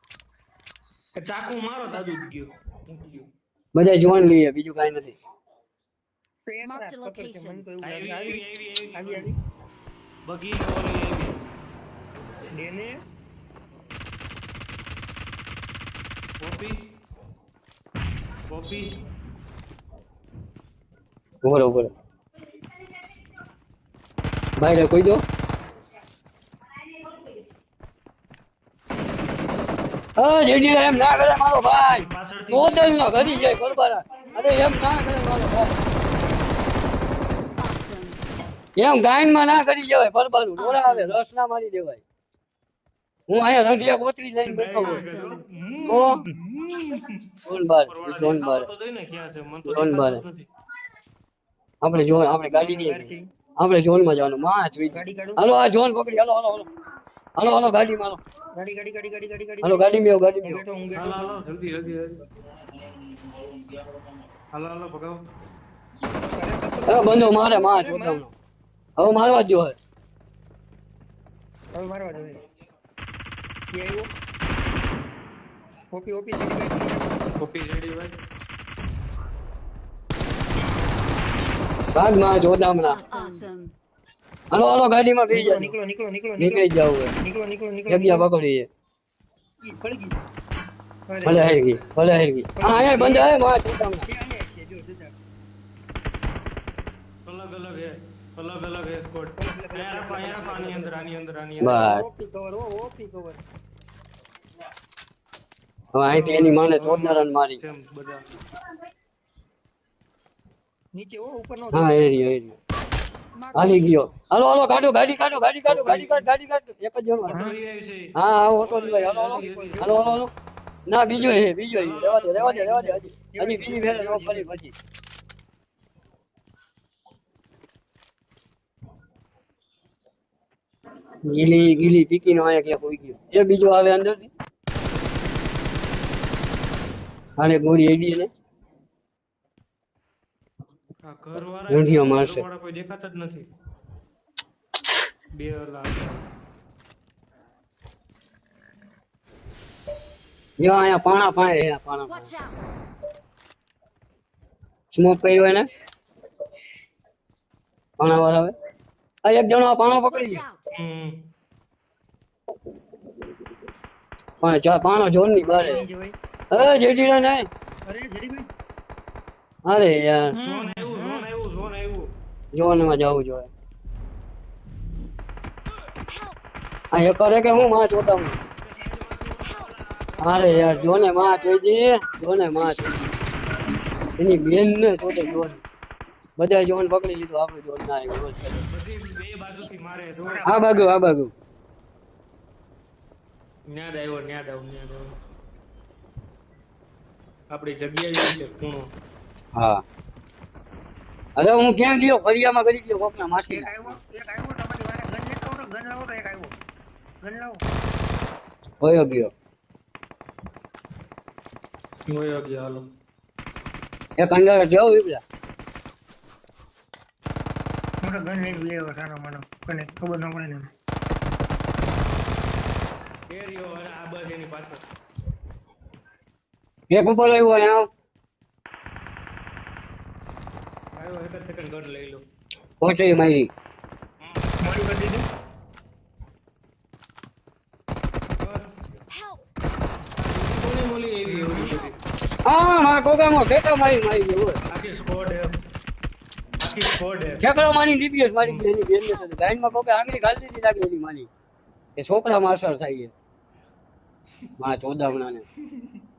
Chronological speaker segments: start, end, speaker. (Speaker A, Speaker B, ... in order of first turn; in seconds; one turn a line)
Speaker A: 1.2-3.3
Speaker B: 3.7-5.2
Speaker C: 6.5-8.4
Speaker D: 6.6-7.6
Speaker A: 7.8-9.3
Speaker C: 8.9-9.4
Speaker A: 10.2-11.4
Speaker C: 12.5-13.0
Speaker A: 16.4-16.8
Speaker A: 18.5-19.0
Speaker B: 21.4-21.9
Speaker B: 24.6-25.2
Speaker B: 30.2-35.7
Speaker A: 31.9-33.4
Speaker D: 37.6-38.2
Speaker B: 38.8-42.0
Speaker D: 40.6-41.1
Speaker B: 43.3-45.0
Speaker A: 44.4-50.5
Speaker D: 44.9-45.4
Speaker B: 45.8-46.2
Speaker B: 47.5-48.7
Speaker B: 49.6-50.2
Speaker B: 51.8-56.7
Speaker C: 52.5-53.3
Speaker C: 54.9-55.4
Speaker B: 57.4-58.2
Speaker C: 58.5-61.2
Speaker B: 59.6-60.6
Speaker A: 60.9-62.2
Speaker A: 64.5-65.2
Speaker C: 66.2-68.2
Speaker B: 66.9-68.3
Speaker B: 69.0-69.8
Speaker C: 71.7-72.4
Speaker C: 73.7-74.1
Speaker C: 75.9-77.2
Speaker A: 77.4-78.1
Speaker B: 81.9-83.0
Speaker D: 82.8-83.7
Speaker B: 84.5-85.7
Speaker C: 85.3-86.7
Speaker B: 86.4-87.1
Speaker C: 87.2-88.2
Speaker B: 87.9-88.7
Speaker C: 89.6-90.2
Speaker C: 91.1-91.6
Speaker B: 91.2-94.1
Speaker C: 92.6-93.3
Speaker C: 94.0-95.1
Speaker A: 97.2-101.8
Speaker C: 99.4-101.0
Speaker B: 101.6-102.0
Speaker C: 101.6-103.4
Speaker B: 105.9-107.6
Speaker A: 106.1-108.3
Speaker C: 110.9-112.0
Speaker B: 111.7-112.6
Speaker D: 113.3-114.1
Speaker B: 113.5-117.4
Speaker A: 115.7-116.3
Speaker A: 117.3-120.2
Speaker C: 117.3-117.6
Speaker B: 118.1-120.3
Speaker C: 119.1-120.0
Speaker B: 120.8-124.7
Speaker A: 121.7-123.0
Speaker C: 123.3-124.5
Speaker B: 131.2-134.3
Speaker B: 137.4-138.3
Speaker A: 141.1-143.5
Speaker B: 141.7-142.4
Speaker A: 145.4-146.3
Speaker B: 150.6-152.3
Speaker D: 152.1-152.7
Speaker B: 154.9-155.7
Speaker B: 158.0-158.5
Speaker B: 159.2-160.4
Speaker D: 160.0-160.7
Speaker A: 160.7-161.2
Speaker B: 164.4-165.8
Speaker C: 165.4-166.1
Speaker B: 166.5-167.5
Speaker C: 167.8-168.5
Speaker B: 169.6-170.4
Speaker C: 170.3-171.3
Speaker A: 170.4-172.1
Speaker B: 172.5-173.5
Speaker B: 176.9-178.4
Speaker A: 178.6-181.6
Speaker B: 180.2-183.0
Speaker B: 184.2-185.6
Speaker B: 186.4-188.7
Speaker A: 188.7-190.4
Speaker C: 190.2-190.7
Speaker B: 190.4-191.3
Speaker A: 193.7-195.1
Speaker A: 197.5-198.9
Speaker B: 199.5-199.8
Speaker B: 201.3-204.0
Speaker C: 203.5-206.5
Speaker C: 207.2-207.6
Speaker B: 208.8-209.3
Speaker A: 212.1-212.8
Speaker B: 214.2-215.2
Speaker C: 218.0-220.7
Speaker A: 223.3-224.9
Speaker B: 226.9-227.9
Speaker A: 230.9-232.2
Speaker B: 232.8-233.5
Speaker C: 234.6-235.2
Speaker A: 238.4-238.6
Speaker A: 240.2-241.9
Speaker B: 242.4-244.6
Speaker A: 244.7-245.5
Speaker A: 246.6-247.4
Speaker B: 247.4-251.3
Speaker B: 252.0-253.1
Speaker B: 254.6-255.4